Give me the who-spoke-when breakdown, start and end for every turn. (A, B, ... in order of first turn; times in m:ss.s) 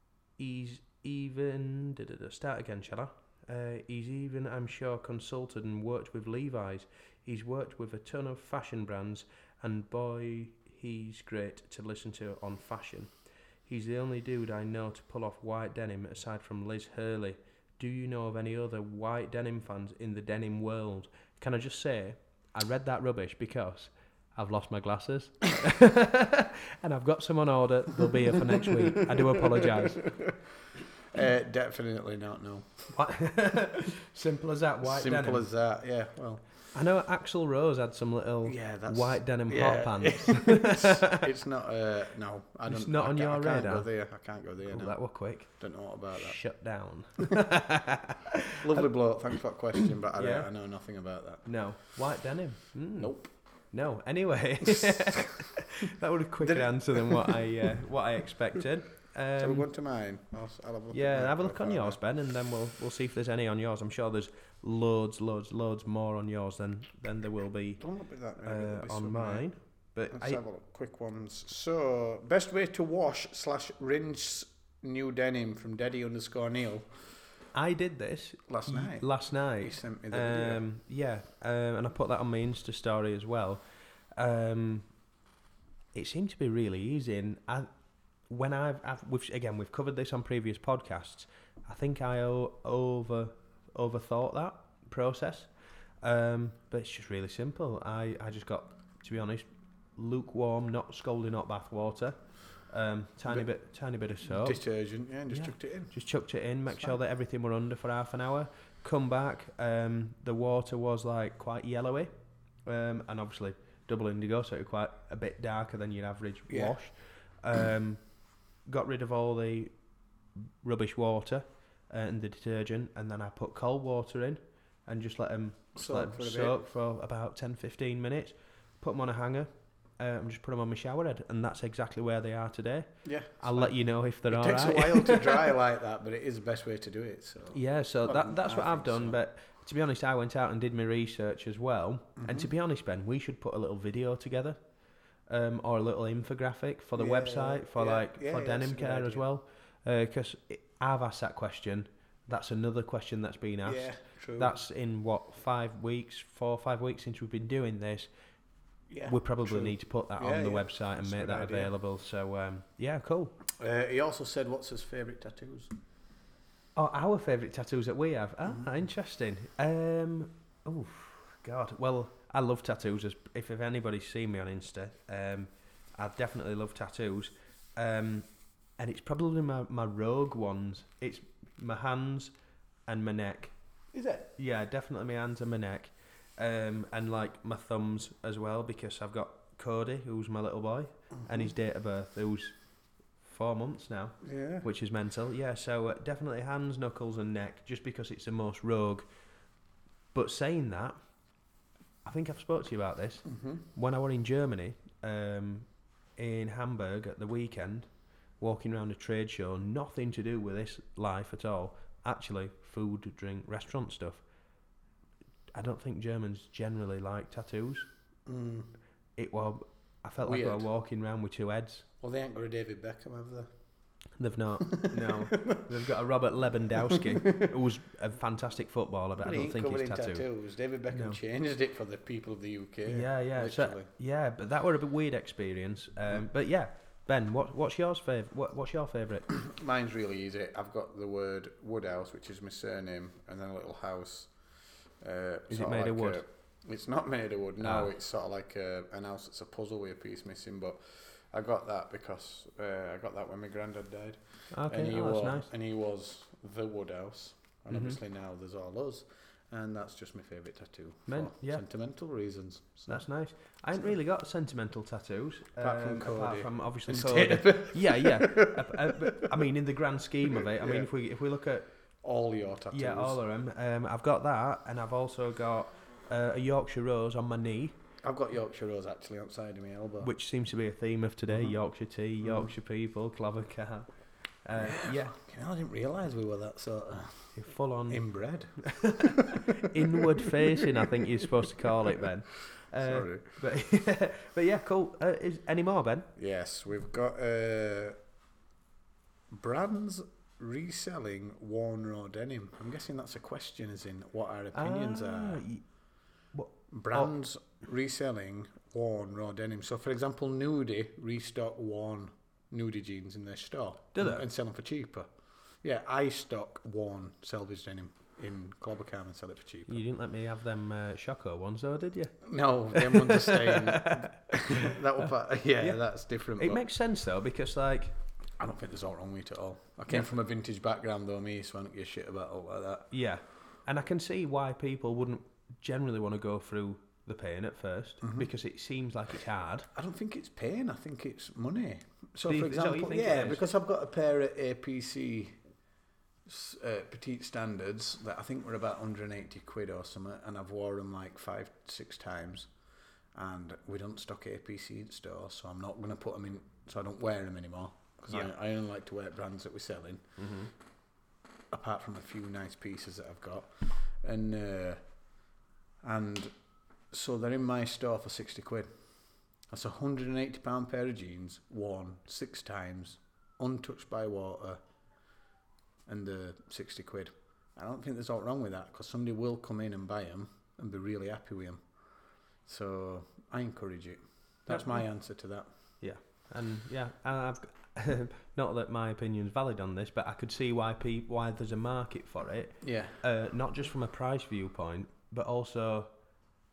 0:00.4-0:13.1 A
0:13.7-0:30.0 A
0:28.6-0:30.4 B
0:31.1-0:32.9 B
0:32.9-0:35.5 A
0:34.8-0:36.4 B
0:36.7-0:41.2 A
0:38.4-0:46.4 B
0:42.7-0:43.9 A
0:44.6-0:48.8 A
0:48.6-0:51.5 B
0:50.1-0:50.5 A
0:51.4-0:59.6 A
0:53.0-0:53.3 B
0:56.4-0:57.4 B
0:59.4-1:02.0 B
1:00.9-1:07.8 A
1:07.8-1:09.5 B
1:08.4-1:10.4 A
1:10.1-1:17.1 B
1:17.5-1:23.6 A
1:18.5-1:20.6 B
1:24.2-1:24.9 A
1:25.9-1:27.7 A
1:28.3-1:44.6 A
1:44.2-1:45.9 B
1:45.3-1:52.1 A
1:52.6-1:58.1 A
1:56.5-1:56.8 B
1:58.6-1:59.7 A
2:00.6-2:15.5 A
2:05.7-2:06.6 B
2:13.0-2:19.2 B
2:17.5-2:24.6 A
2:22.2-2:22.5 B
2:25.3-2:38.1 A
2:27.0-2:29.3 B
2:33.6-2:34.5 B
2:38.9-2:41.7 B
2:39.1-2:43.4 A
2:43.6-2:45.7 B
2:46.8-3:02.3 A
3:02.9-3:03.5 A
3:03.9-3:04.3 B
3:04.4-3:12.6 A
3:11.2-3:11.5 B
3:13.2-3:19.1 A
3:14.2-3:14.7 B
3:20.1-3:21.0 A
3:22.0-3:34.2 A
3:23.3-3:23.6 B
3:35.5-3:37.9 A
3:38.2-3:38.7 B
3:39.2-3:41.8 A
3:40.2-3:40.6 B
3:42.0-3:43.5 B
3:44.2-3:50.2 A
3:44.7-3:45.6 B
3:46.8-3:47.5 B
3:49.2-3:53.9 B
3:50.9-3:51.2 A
3:52.8-3:59.3 A
3:59.3-4:04.3 B
4:05.0-4:23.0 B
4:05.5-4:06.2 A
4:07.6-4:07.9 A
4:14.5-4:15.5 A
4:17.7-4:18.0 A
4:21.1-4:21.6 A
4:22.9-4:31.7 A
4:25.6-4:29.4 B
4:30.4-4:30.9 B
4:32.0-4:33.2 B
4:32.7-4:37.8 A
4:38.0-4:40.1 B
4:40.0-4:43.9 A
4:41.3-4:41.6 B
4:42.2-4:42.5 B
4:44.4-4:45.1 A
4:44.6-4:47.4 B
4:47.3-4:48.0 A
4:47.9-4:50.3 B
4:48.6-4:56.1 A
4:52.8-4:53.3 B
4:56.2-4:58.0 B
4:59.3-5:05.4 B
5:04.5-5:05.6 A
5:06.3-5:07.1 A
5:06.7-5:15.1 B
5:13.9-5:14.2 A
5:15.6-5:19.8 B
5:19.7-5:24.8 A
5:22.2-5:26.6 B
5:26.4-5:27.9 A
5:28.4-5:32.9 B
5:32.9-5:39.7 A
5:38.0-5:38.3 B
5:39.7-5:45.4 B
5:42.2-5:43.4 A
5:46.2-5:52.5 B
5:53.1-6:00.0 B
6:00.2-6:00.5 A
6:01.5-6:04.8 B
6:05.8-6:06.3 B
6:06.9-6:08.7 B
6:09.5-6:14.6 B
6:15.8-6:21.6 B
6:22.4-6:25.5 B
6:24.5-6:24.8 A
6:25.8-6:35.9 A
6:32.6-6:33.0 B